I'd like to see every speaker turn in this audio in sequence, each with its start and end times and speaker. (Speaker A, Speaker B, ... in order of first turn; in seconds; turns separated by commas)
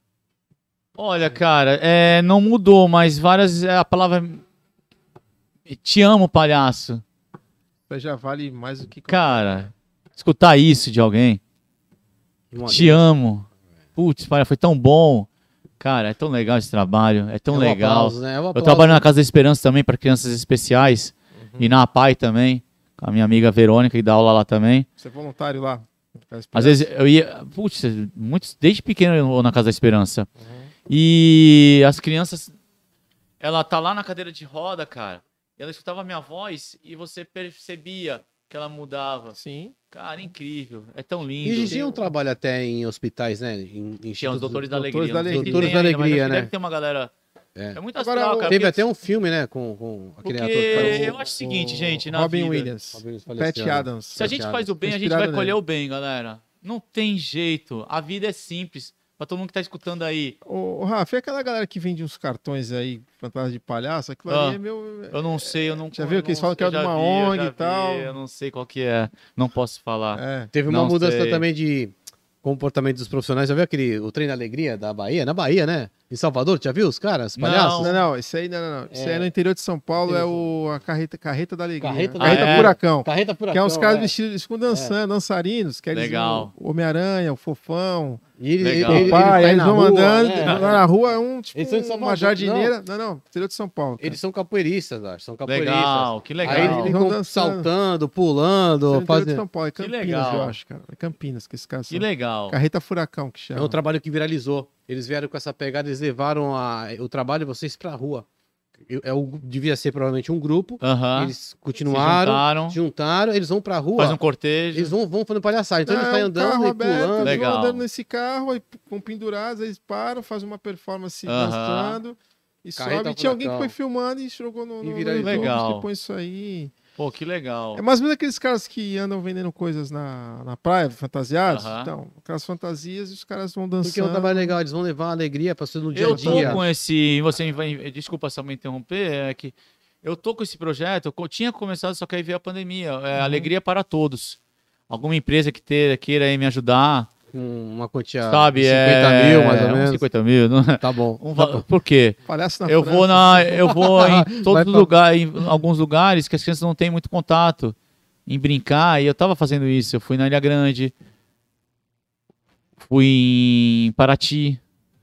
Speaker A: 1.0-4.4, Speaker A: 5.7-7.0, Speaker B: 7.9-9.6, Speaker A: 9.1-11.4, Speaker C: 12.5-13.1, Speaker A: 12.6-15.3, Speaker A: 15.8-24.9, Speaker C: 17.5-19.1, Speaker B: 21.4-21.8, Speaker B: 25.0-26.9, Speaker A: 26.6-30.3, Speaker B: 30.4-30.7, Speaker A: 30.9-32.6, Speaker A: 33.4-39.4, Speaker B: 39.3-39.8, Speaker A: 39.9-41.8, Speaker C: 41.4-44.6, Speaker B: 41.7-42.0, Speaker A: 44.2-47.1, Speaker B: 44.7-45.8, Speaker C: 45.3-46.5, Speaker A: 47.7-48.8, Speaker B: 48.0-48.6, Speaker C: 48.5-51.2, Speaker A: 50.2-52.7, Speaker B: 50.7-55.6, Speaker C: 52.9-54.7, Speaker A: 54.1-60.4, Speaker B: 60.5-68.2, Speaker A: 64.3-64.6, Speaker A: 65.1-71.4, Speaker B: 70.1-70.5, Speaker C: 70.5-78.0, Speaker A: 77.4-77.9, Speaker B: 77.8-88.2, Speaker C: 78.9-79.3, Speaker C: 80.0-80.5, Speaker C: 81.8-84.1, Speaker A: 82.2-82.7, Speaker C: 84.7-85.0, Speaker A: 85.9-86.5, Speaker C: 88.4-90.9, Speaker A: 88.6-89.5, Speaker B: 88.9-94.2, Speaker A: 90.4-90.7, Speaker C: 91.5-92.7, Speaker C: 94.0-99.4, Speaker A: 95.5-97.0, Speaker B: 96.4-97.7, Speaker B: 98.9-103.8, Speaker A: 99.8-100.6, Speaker A: 101.9-102.6, Speaker C: 103.5-108.2, Speaker C: 108.9-114.2, Speaker A: 110.8-111.3, Speaker A: 111.9-112.8, Speaker A: 114.0-114.9, Speaker C: 114.7-117.4, Speaker B: 115.8-126.7, Speaker A: 117.2-117.8, Speaker A: 121.3-122.0, Speaker C: 122.8-123.7, Speaker C: 124.8-125.5, Speaker A: 125.2-125.9, Speaker A: 127.0-127.8, Speaker B: 127.8-134.6, Speaker A: 131.5-131.9, Speaker C: 133.8-136.6, Speaker A: 135.9-144.4, Speaker B: 136.0-136.7, Speaker B: 143.2-143.5, Speaker A: 144.9-147.1, Speaker C: 147.3-150.1, Speaker A: 148.3-160.9, Speaker C: 150.8-151.7, Speaker B: 152.2-153.7, Speaker C: 153.7-154.9, Speaker A: 162.8-164.6